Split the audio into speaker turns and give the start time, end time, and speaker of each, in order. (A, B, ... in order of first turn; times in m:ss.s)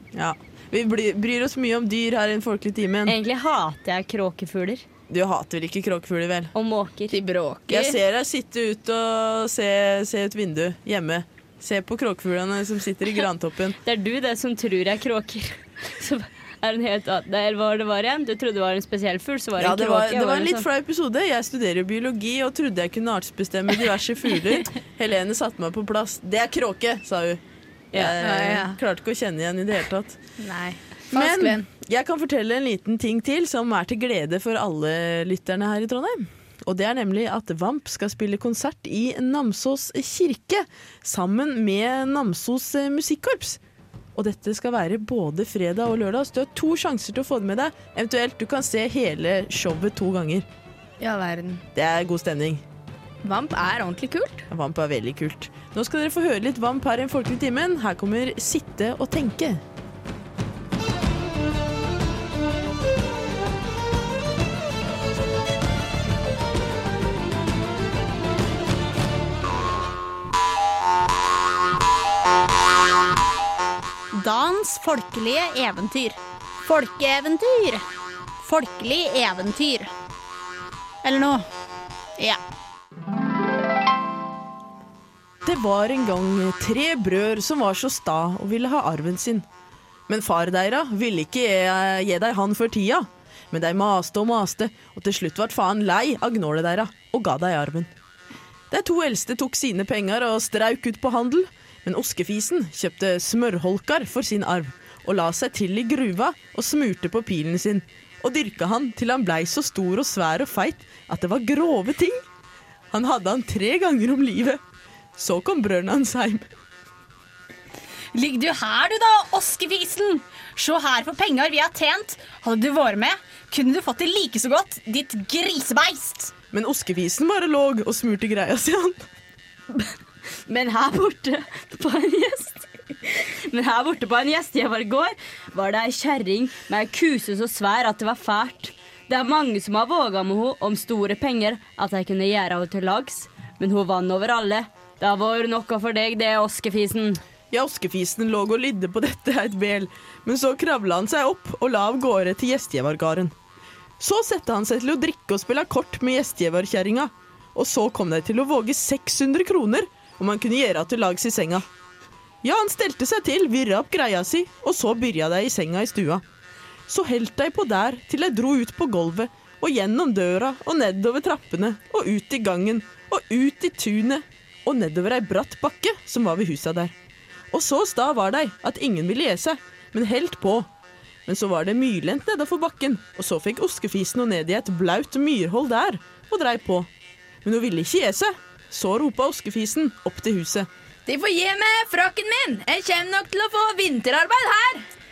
0:00.1-0:03.1 A
0:03.0-0:04.8 B
0:05.1-0:06.5 A
0:06.5-0:07.2 B
0:07.1-0:08.0 C
0:07.7-0:13.8 A
0:13.8-0:20.6 B
0:19.6-0:27.4 A
0:27.9-0:28.2 B
0:27.9-0:30.2 A
0:28.2-0:28.8 C
0:30.4-0:31.6 C
0:31.1-0:43.6 A
0:44.1-0:50.4 A
0:51.0-0:51.6 C
0:51.7-0:52.6 A
0:53.2-0:54.5 C
0:54.5-0:59.6 A
1:14.1-1:17.8 D
1:18.4-1:19.9 D
1:21.0-1:21.5 D
1:25.4-1:29.4 A
1:30.1-1:37.9 A
1:38.7-1:52.2 A
1:52.9-1:54.6 A
1:55.2-1:56.5 A
1:58.1-2:06.3 D
2:06.5-2:09.0 A
2:10.5-2:12.6 B
2:13.2-2:27.2 B
2:27.5-2:33.3 A
2:34.0-2:41.6 A
2:42.4-2:46.2 A
2:46.9-2:56.9 A
2:57.5-3:00.7 A
3:01.2-3:06.9 A
3:07.4-3:10.7 A
3:11.0-3:14.8 C